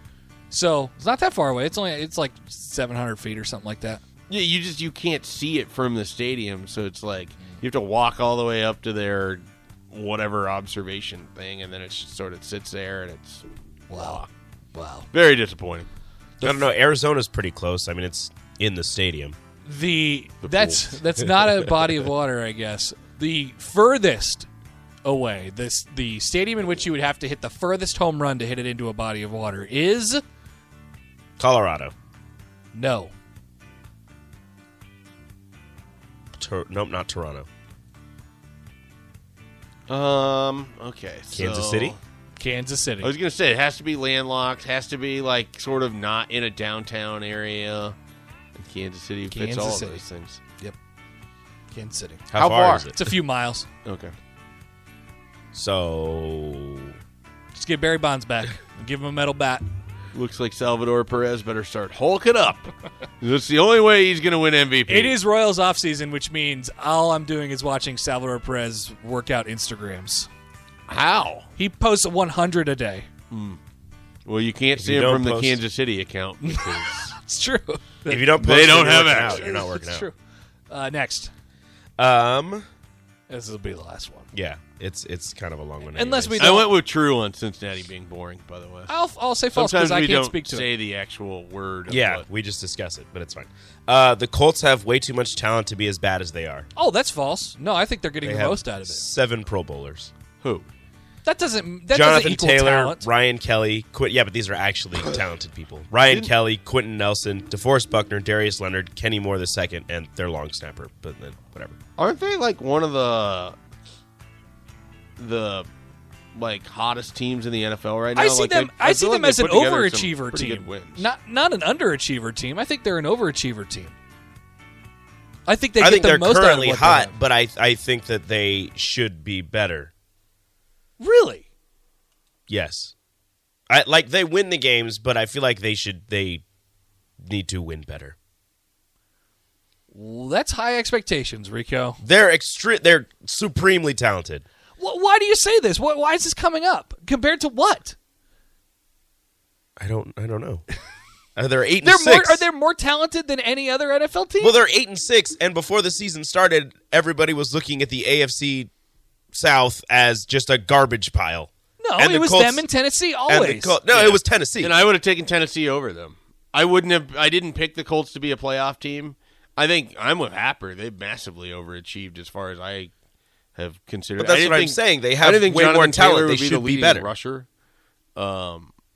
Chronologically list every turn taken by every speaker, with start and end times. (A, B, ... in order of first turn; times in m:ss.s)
0:00.5-0:04.0 A
0:04.3-0:14.3 B
0:13.9-0:14.2 A
0:14.7-0:15.1 A
0:15.1-0:15.9 B
0:16.4-0:16.7 A
0:16.4-0:19.4 C
0:19.6-0:24.5 A
0:20.4-0:21.0 B
0:25.0-0:30.2 A
0:31.4-0:31.9 C
0:32.7-0:33.1 A
0:36.4-0:37.5 C
0:39.9-0:42.0 B
0:41.3-0:42.0 C
0:42.4-0:43.1 A
0:43.0-0:47.9 B
0:48.6-0:50.4 B
0:49.3-0:50.0 A
0:51.7-0:52.3 A
0:52.3-0:53.1 C
0:52.4-0:52.9 B
0:52.9-0:53.7 A
0:53.8-0:54.1 B
0:55.5-0:56.9 C
0:57.5-0:59.6 A
1:00.1-1:05.2 B
1:04.9-1:10.3 A
1:10.9-1:11.5 B
1:11.6-1:13.1 A
1:13.3-1:13.6 B
1:14.2-1:17.1 B
1:14.8-1:15.6 C
1:16.4-1:20.1 A
1:18.1-1:20.0 C
1:18.4-1:19.6 B
1:20.7-1:21.3 A
1:22.0-1:22.6 C
1:23.3-1:24.3 A
1:24.3-1:26.6 C
1:25.9-1:26.7 A
1:26.4-1:29.0 B
1:28.9-1:30.7 A
1:29.5-1:32.2 B
1:31.9-1:36.7 C
1:36.8-1:39.0 A
1:38.2-1:40.1 C
1:40.4-1:40.7 B
1:41.2-1:43.1 A
1:41.9-1:51.8 C
1:46.0-1:46.3 B
1:52.0-1:53.6 B
1:55.2-1:55.7 B
1:56.3-2:01.1 B
1:58.1-2:03.9 A
2:05.5-2:07.1 A
2:05.8-2:09.9 C
2:11.0-2:11.4 A
2:12.5-2:12.9 C
2:13.7-2:16.4 C
2:17.2-2:18.2 C
2:19.9-2:22.0 A
2:22.0-2:24.4 C
2:24.8-2:28.0 A
2:29.8-2:30.6 C
2:31.4-2:32.4 C
2:31.8-2:34.6 A
2:34.4-2:38.7 C
2:39.3-2:42.7 C
2:41.8-2:43.8 A
2:43.2-2:44.8 C
2:43.9-2:52.9 B
2:53.5-2:57.5 B
2:54.2-2:57.1 C
2:58.2-2:58.7 B